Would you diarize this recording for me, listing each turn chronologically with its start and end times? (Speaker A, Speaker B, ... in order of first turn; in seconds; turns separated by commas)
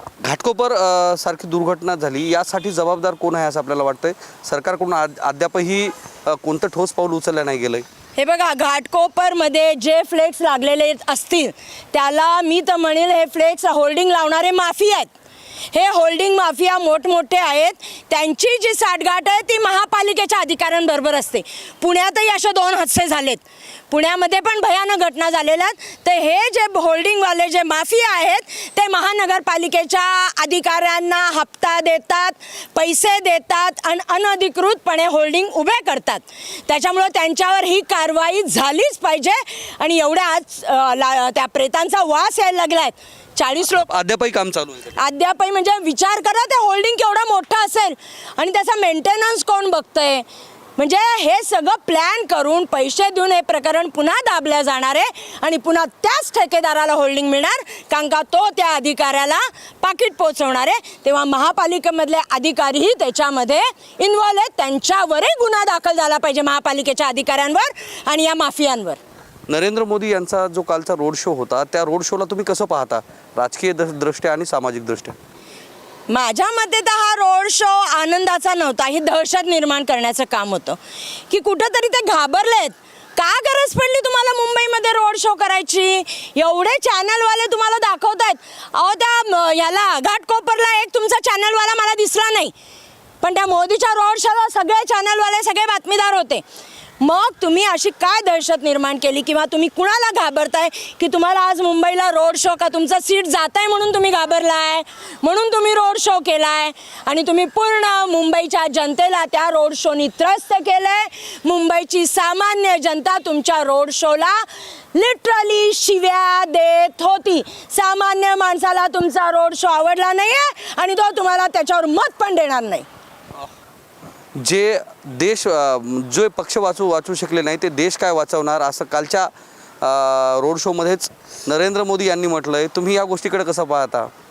Speaker A: 0.2-7.8, Speaker B: 8.2-15.1, Speaker B: 15.7-43.9, Speaker A: 43.9-45.0, Speaker B: 45.0-50.2, Speaker B: 50.8-69.0, Speaker A: 69.5-75.2, Speaker B: 76.1-80.8, Speaker B: 81.3-92.5, Speaker B: 93.2-96.4, Speaker B: 97.0-122.9, Speaker A: 124.4-134.1